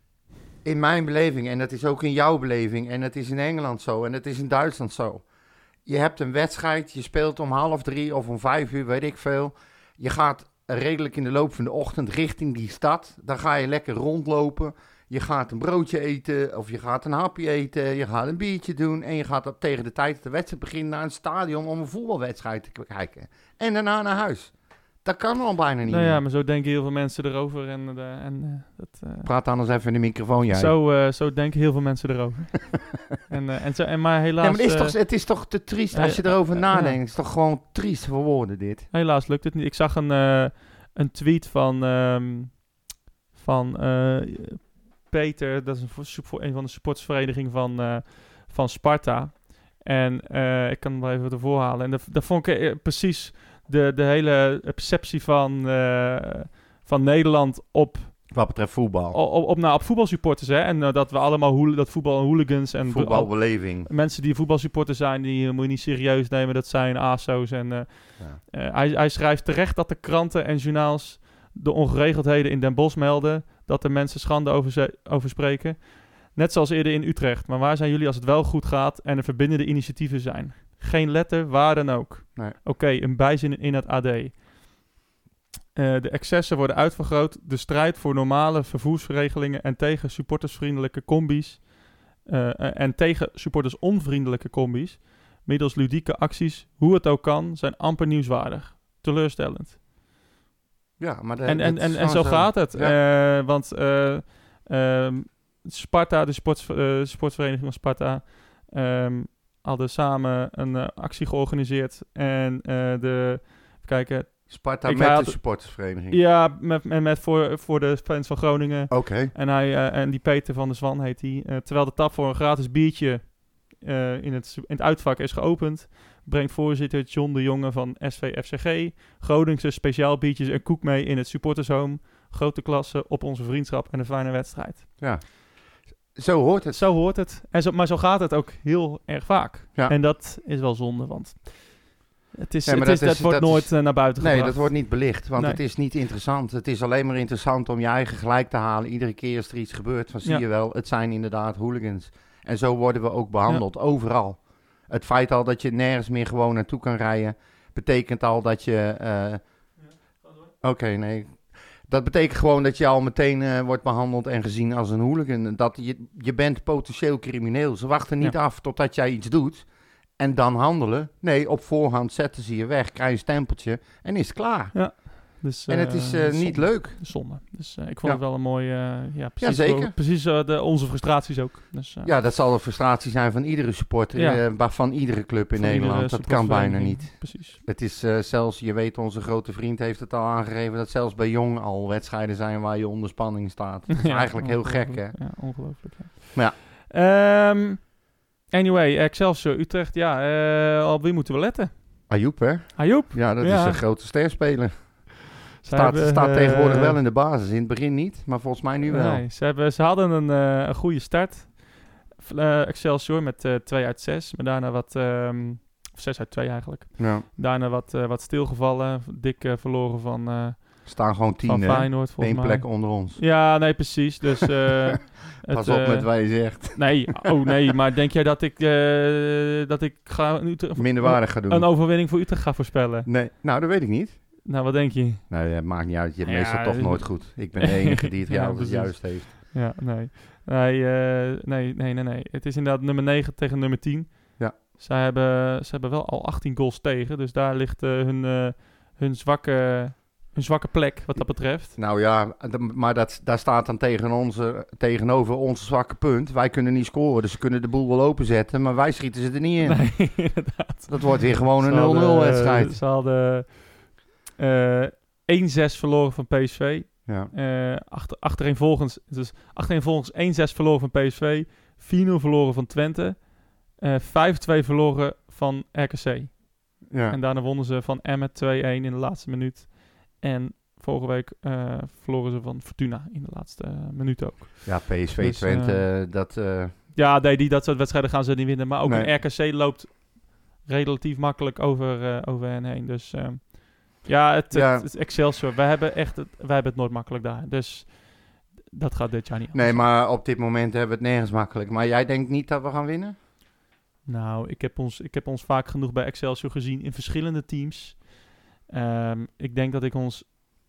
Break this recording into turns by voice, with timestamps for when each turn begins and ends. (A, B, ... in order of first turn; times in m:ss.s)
0:00.6-0:05.2 A
0:05.9-0:26.2 A
0:25.9-0:29.3 B
0:29.2-0:30.8 A
0:30.5-0:37.0 B
0:34.4-0:38.9 A
0:38.9-0:42.8 B
0:43.3-0:58.5 B
0:58.3-0:59.2 A
0:59.1-1:24.8 B
1:02.8-1:03.9 A
1:25.7-1:39.8 B
1:41.0-1:43.0 A
1:41.4-2:14.9 B
1:54.5-1:56.2 A
1:58.9-1:59.3 A
2:15.0-2:16.8 A
2:16.7-2:25.6 B
2:22.6-2:39.4 A
2:40.6-2:57.4 A
2:54.7-3:02.1 B
2:59.4-2:59.9 A
3:02.0-3:15.4 A
3:04.2-3:04.4 B
3:05.6-3:07.6 B
3:13.9-3:18.0 B
3:18.5-3:22.2 B
3:22.1-3:29.2 A
3:22.8-3:23.8 B
3:25.6-3:27.0 B
3:28.9-3:53.1 B
3:37.0-3:37.2 A
3:40.8-3:43.8 A
3:45.4-3:47.3 A
3:50.8-3:51.7 A
3:53.1-3:54.5 A
3:54.4-3:55.3 B
3:55.3-3:59.3 A
3:56.2-4:11.8 B
4:11.2-4:22.8 A
4:19.6-4:45.8 B
4:27.1-4:27.3 A
4:36.9-4:37.2 A
4:44.6-4:46.7 A
4:46.9-4:59.9 B
4:48.8-4:49.1 A
4:54.5-4:54.9 A
4:59.5-5:03.2 A
5:04.1-5:10.3 B